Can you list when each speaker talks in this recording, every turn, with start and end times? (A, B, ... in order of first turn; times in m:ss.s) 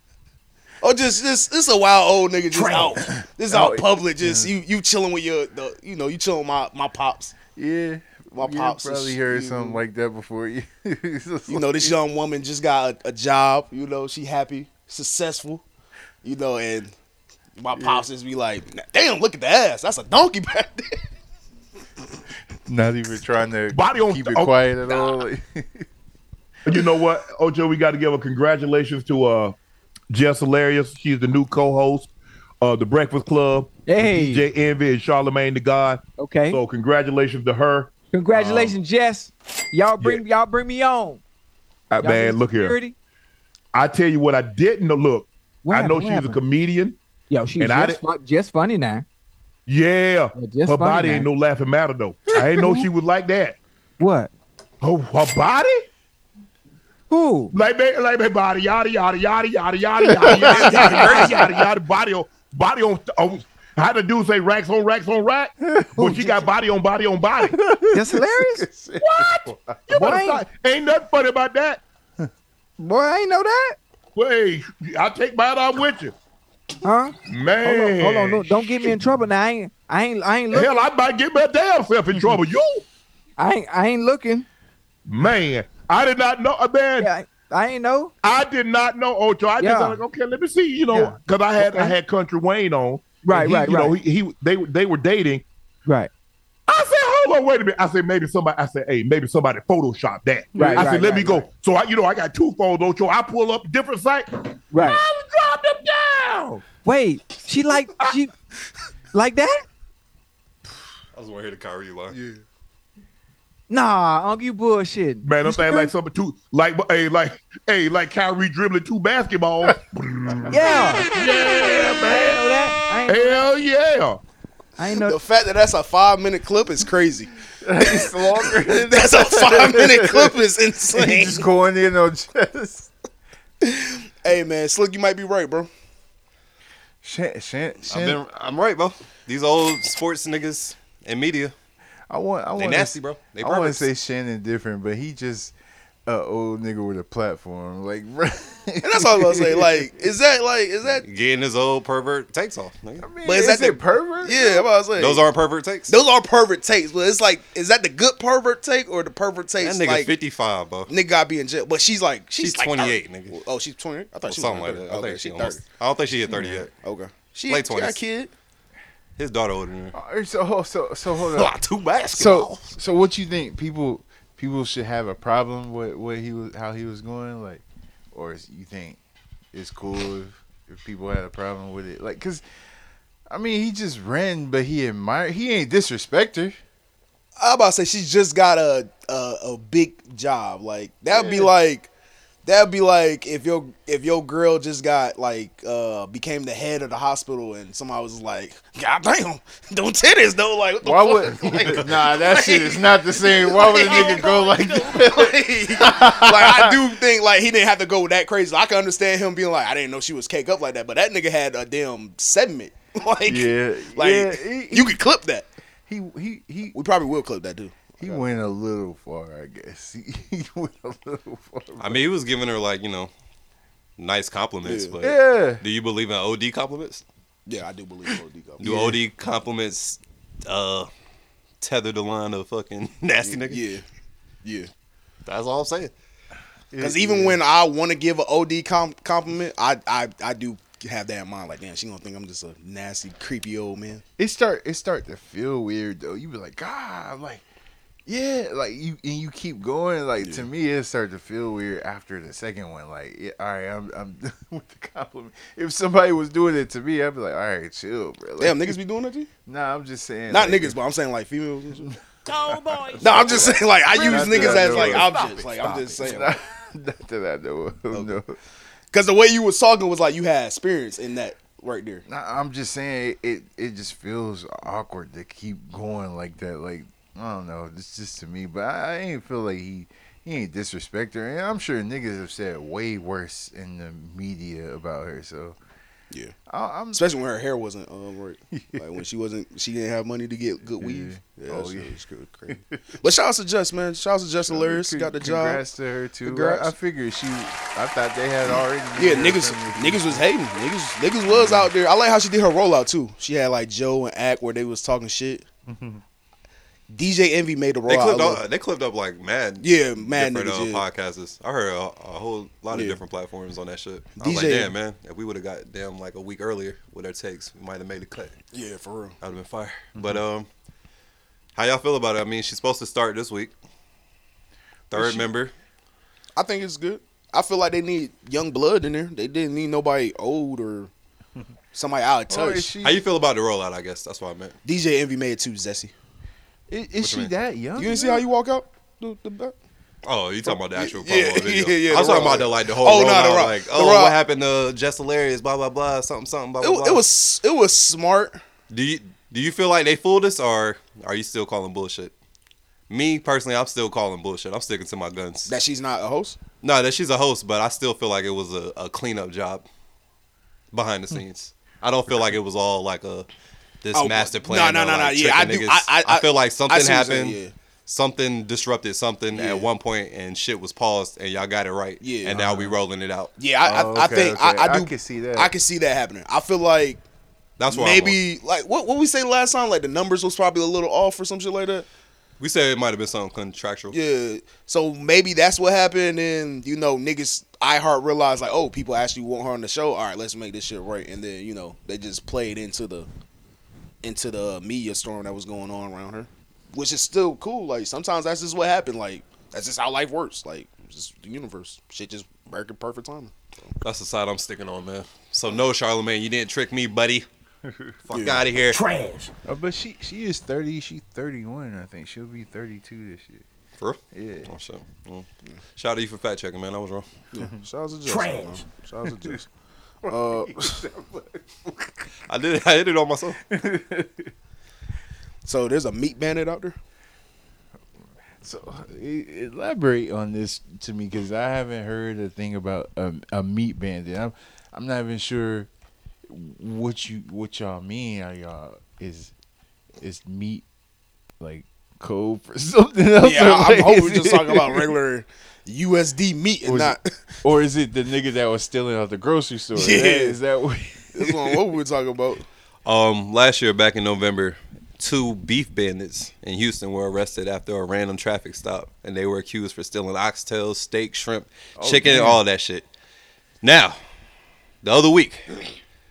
0:00.8-0:07.4 A
0:02.5-0:04.5 B
0:07.5-0:12.0 B
0:08.4-0:09.8 A
0:11.5-0:15.6 A
0:16.2-0:16.9 A
0:17.6-0:21.0 A
0:17.7-0:18.1 B
0:22.7-0:25.9 B
0:23.7-0:24.5 C
0:26.7-0:29.6 C
0:30.1-0:38.8 C
0:33.9-0:34.5 D
0:36.2-0:36.6 D
0:38.1-0:41.2 D
0:41.9-0:42.8 C
0:42.0-0:43.0 D
0:43.7-0:47.0 C
0:45.6-0:46.4 D
0:47.3-0:49.0 D
0:47.6-0:48.0 C
0:49.7-0:53.6 C
0:50.4-0:51.3 D
0:52.3-0:52.9 D
0:54.0-0:54.3 D
0:54.8-0:55.9 C
0:57.1-0:57.5 D
0:57.5-1:07.6 C
1:00.0-1:01.5 B
1:00.4-1:01.4 A
1:00.5-1:01.0 E
1:05.6-1:06.3 B
1:06.0-1:06.4 D
1:07.4-1:09.8 B
1:07.9-1:08.7 D
1:09.0-1:11.8 C
1:09.9-1:10.5 D
1:12.8-1:13.8 D
1:14.2-1:16.1 C
1:16.8-1:20.7 D
1:17.3-1:18.8 C
1:20.5-1:22.8 C
1:23.4-1:24.5 D
1:25.1-1:27.1 C
1:27.0-1:28.1 D
1:28.2-1:35.4 C
1:29.6-1:30.0 D
1:31.6-1:32.0 D
1:33.2-1:34.0 D
1:35.9-1:36.1 D
1:36.7-1:46.6 C
1:40.6-1:41.5 D
1:44.7-1:45.0 D
1:46.8-1:48.3 D
1:49.1-1:49.6 D
1:51.1-1:52.2 E
1:53.7-1:55.9 D
1:55.2-2:04.2 C
2:00.5-2:03.5 D
2:04.8-2:05.2 D
2:05.0-2:11.5 A
2:07.6-2:12.9 B
2:13.6-2:15.7 A
2:17.0-2:18.2 B
2:17.9-2:21.5 E
2:22.1-2:25.5 B
2:22.6-2:23.9 E
2:26.1-2:29.9 B
2:28.8-2:31.0 A
2:31.0-2:33.1 E
2:33.0-2:34.7 B
2:33.2-2:35.2 A
2:35.0-2:36.0 E
2:35.9-2:40.1 A
2:39.6-2:40.9 E
2:40.9-2:45.6 A
2:42.4-2:43.4 E
2:44.3-2:46.7 E
2:46.3-2:46.7 B
2:46.8-2:48.3 A
2:47.5-2:48.0 E
2:49.2-2:49.9 E
2:49.9-2:51.6 B
2:51.4-2:52.7 E
2:52.1-2:59.0 B
2:59.5-3:02.4 B
3:03.3-3:06.6 B
3:07.4-3:11.9 A
3:11.1-3:11.5 B
3:12.4-3:35.5 A
3:20.8-3:26.8 B
3:23.5-3:25.0 F
3:33.3-3:35.0 B
3:35.9-3:36.8 B
3:36.7-3:38.2 A
3:38.0-3:42.0 B
3:41.8-3:43.1 E
3:44.0-3:47.0 E
3:44.6-3:45.0 A
3:45.0-3:45.6 B
3:47.5-3:48.9 A
3:48.6-3:50.9 E
3:51.6-3:53.6 E
3:53.2-3:53.8 A
3:54.4-3:54.7 A
3:55.3-3:55.9 E
3:56.7-3:57.4 B
3:56.8-4:04.0 A
4:04.2-4:07.4 B
4:08.1-4:18.8 B
4:18.4-4:19.3 A
4:19.5-4:20.8 B
4:20.3-4:21.9 A
4:22.3-4:23.6 F
4:22.5-4:28.4 B
4:23.0-4:26.3 A
4:27.9-4:28.2 A
4:28.9-4:32.0 A
4:32.1-4:45.6 B
4:46.5-4:47.0 B
4:46.9-4:55.6 A
4:48.6-4:48.8 B
4:50.6-4:52.6 B
4:54.5-5:00.3 B
4:56.2-4:56.7 A
4:58.5-5:05.5 A
5:01.3-5:01.7 B
5:05.7-5:06.0 B
5:06.9-5:08.4 A
5:07.9-5:18.3 E
5:09.6-5:10.8 A
5:12.7-5:13.0 A
5:14.2-5:14.7 A
5:18.5-5:19.2 A
5:19.2-5:20.5 E
5:20.0-5:20.2 B
5:21.6-5:23.5 E
5:24.9-5:25.5 E
5:26.4-5:30.9 A
5:31.7-5:32.7 A
5:32.3-5:33.0 B
5:32.8-5:34.6 E
5:34.6-5:35.9 A
5:36.7-5:38.3 B
5:37.0-5:37.3 E
5:37.8-5:39.6 A
5:40.0-5:47.0 E
5:40.5-5:44.2 A
5:46.6-5:48.4 A
5:48.7-5:52.1 E
5:52.9-5:55.6 E
5:55.5-5:56.4 A
5:56.6-5:59.7 E
6:00.7-6:03.3 E
6:03.8-6:13.3 E
6:03.9-6:07.5 A
6:09.3-6:09.7 A
6:12.0-6:12.4 A
6:12.3-6:12.8 B
6:13.4-6:17.0 A
6:13.6-6:15.5 B
6:17.6-6:18.2 E
6:17.7-6:21.9 A
6:22.4-6:24.0 E
6:23.9-6:33.1 A
6:34.0-6:43.8 A
6:43.8-6:47.3 E
6:48.0-6:48.8 E
6:48.1-6:48.4 A
6:49.4-6:53.4 B
6:53.8-6:57.0 E
6:54.1-6:54.5 B
6:57.3-6:59.5 A
7:00.0-7:01.9 B
7:00.1-7:00.8 A
7:02.3-7:03.4 E
7:03.5-7:04.3 B
7:05.4-7:06.8 A
7:08.4-7:15.7 B
7:16.3-7:19.3 B
7:20.0-7:20.6 B
7:21.4-7:24.9 B
7:23.2-7:27.2 A
7:26.6-7:31.6 B
7:29.8-7:30.4 A
7:31.1-7:32.5 A
7:32.9-7:42.9 E
7:41.8-7:42.4 B
7:43.6-7:44.0 E
7:44.8-7:45.6 E